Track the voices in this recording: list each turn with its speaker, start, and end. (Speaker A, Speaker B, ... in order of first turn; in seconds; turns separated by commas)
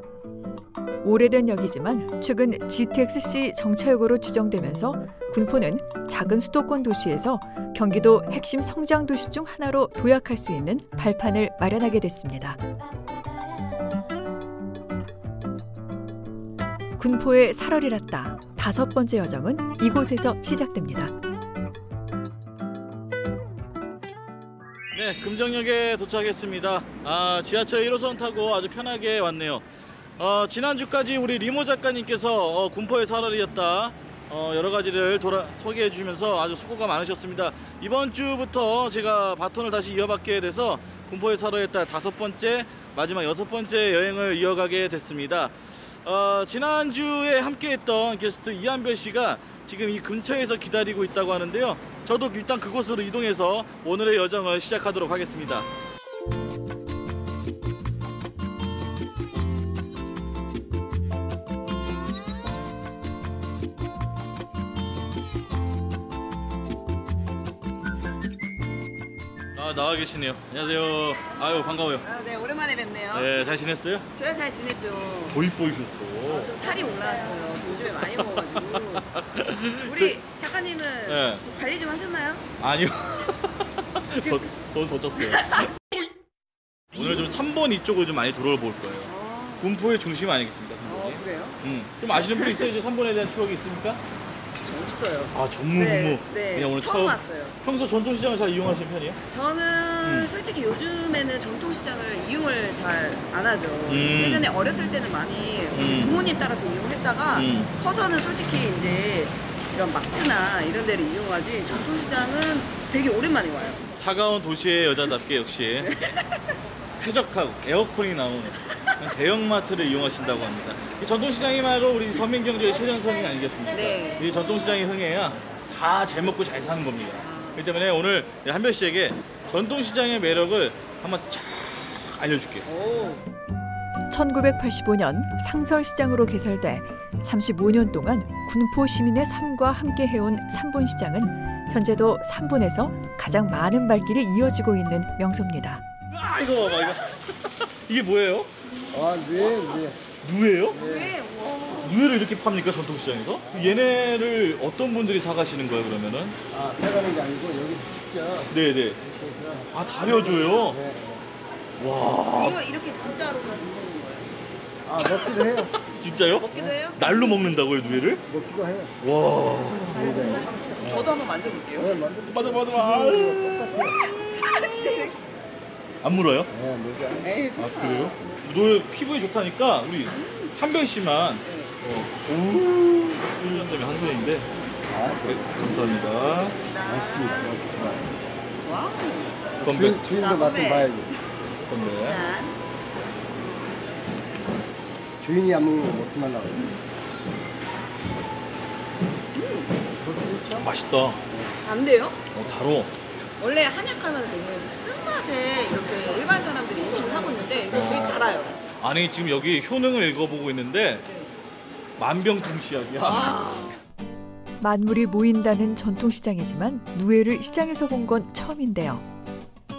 Speaker A: 1.0-12.6, Speaker A: 17.0-21.1, Speaker B: 24.9-29.6, Speaker B: 30.2-55.7, Speaker B: 69.5-72.0, Speaker C: 72.0-73.3, Speaker B: 73.1-74.1, Speaker C: 74.2-75.3, Speaker B: 75.3-76.5, Speaker C: 76.3-79.0, Speaker B: 78.2-80.1, Speaker C: 79.8-82.5, Speaker B: 81.1-81.4, Speaker B: 82.6-85.7, Speaker B: 86.9-94.0, Speaker C: 89.1-89.6, Speaker C: 90.8-91.5, Speaker C: 94.6-97.5, Speaker B: 95.3-99.2, Speaker C: 99.3-113.8, Speaker B: 100.0-100.3, Speaker B: 103.9-104.5, Speaker B: 105.7-106.2, Speaker B: 107.3-107.7, Speaker B: 114.0-116.0, Speaker B: 117.0-132.7, Speaker C: 123.7-124.2, Speaker C: 127.2-127.6, Speaker C: 132.7-133.2, Speaker A: 134.1-145.8, Speaker B: 146.1-147.2, Speaker B: 147.8-148.5, Speaker D: 148.9-150.0, Speaker B: 150.2-150.8, Speaker D: 150.7-151.1, Speaker C: 150.8-151.9, Speaker B: 151.8-156.3, Speaker D: 153.4-153.8, Speaker D: 156.5-161.2, Speaker B: 158.5-159.0, Speaker B: 159.7-160.8, Speaker B: 161.8-162.6, Speaker C: 162.4-164.3, Speaker D: 164.8-165.7, Speaker B: 165.0-168.2, Speaker C: 166.4-167.0, Speaker D: 168.3-168.9, Speaker B: 169.0-170.3, Speaker D: 170.0-171.1, Speaker C: 170.9-171.9, Speaker D: 171.8-174.0, Speaker B: 172.3-173.7, Speaker C: 174.0-175.2, Speaker B: 176.0-176.5, Speaker D: 176.5-177.3, Speaker C: 177.2-178.1, Speaker B: 177.6-184.5, Speaker C: 180.2-180.5, Speaker C: 181.4-181.8, Speaker D: 184.9-185.7, Speaker B: 185.2-186.6, Speaker C: 186.3-187.5, Speaker D: 186.8-188.1, Speaker C: 188.6-189.5, Speaker D: 189.6-191.1, Speaker B: 189.6-190.0, Speaker C: 190.0-190.9, Speaker B: 191.7-192.2, Speaker C: 192.0-192.6, Speaker D: 195.2-196.8, Speaker C: 199.3-199.7, Speaker D: 200.0-200.7, Speaker B: 200.6-201.2, Speaker C: 201.6-202.2, Speaker B: 202.3-202.9, Speaker C: 203.4-208.6, Speaker B: 207.7-208.2, Speaker B: 208.8-211.0, Speaker B: 212.0-213.4, Speaker C: 213.1-213.8, Speaker A: 214.6-219.0